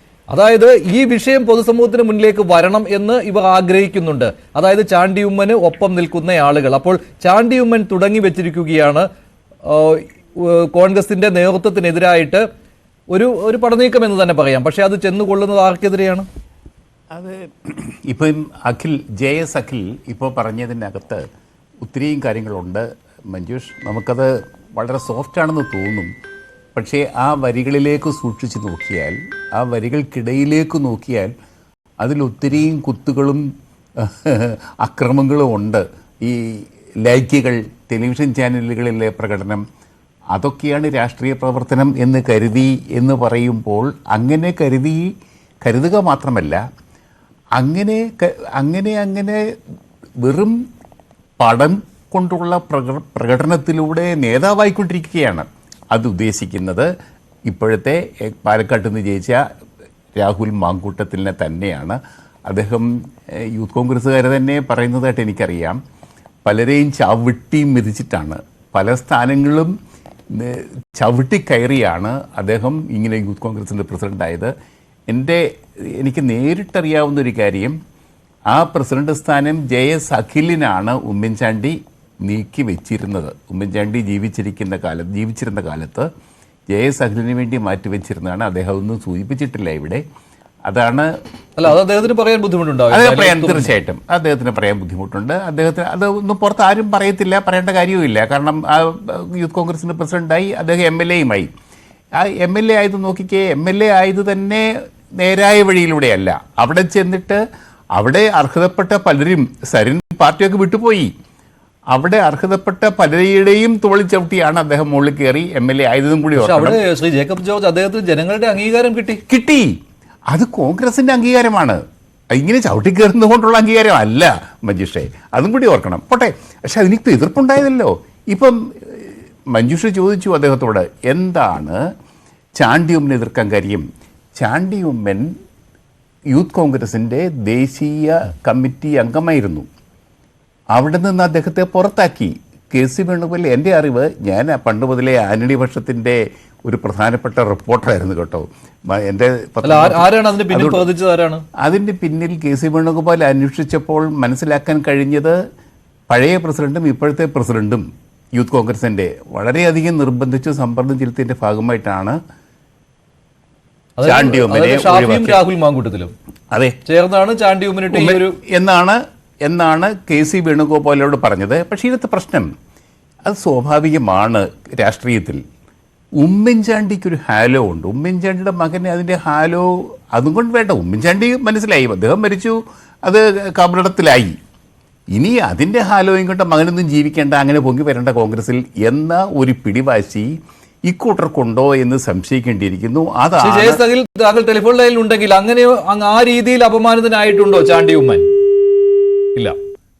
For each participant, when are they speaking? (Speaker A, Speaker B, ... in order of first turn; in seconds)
Speaker A: 0.3-9.1, 9.7-12.4, 13.1-16.2, 91.6-93.7, 116.4-119.2, 149.6-151.4, 164.0-166.1, 166.8-168.3, 193.4-198.3
Speaker B: 17.1-21.2, 21.8-26.1, 26.7-31.3, 32.0-39.6, 40.3-45.0, 45.6-46.6, 47.6-49.4, 50.2-50.6, 51.4-56.9, 57.5-59.4, 60.2-65.8, 66.5-69.7, 70.3-74.5, 75.1-77.8, 78.5-86.1, 86.7-90.0, 90.7-91.1, 92.9-101.5, 102.2-107.4, 108.0-111.1, 111.9-116.8, 119.3-119.8, 120.3-121.8, 122.3-131.8, 132.6-133.8, 134.4-135.3, 136.3-139.7, 140.7-150.8, 151.6-155.4, 156.1-162.2, 164.0-165.4, 166.5-166.8, 167.9-172.5, 173.2-175.4, 176.2-184.3, 185.1-190.3, 190.9-193.8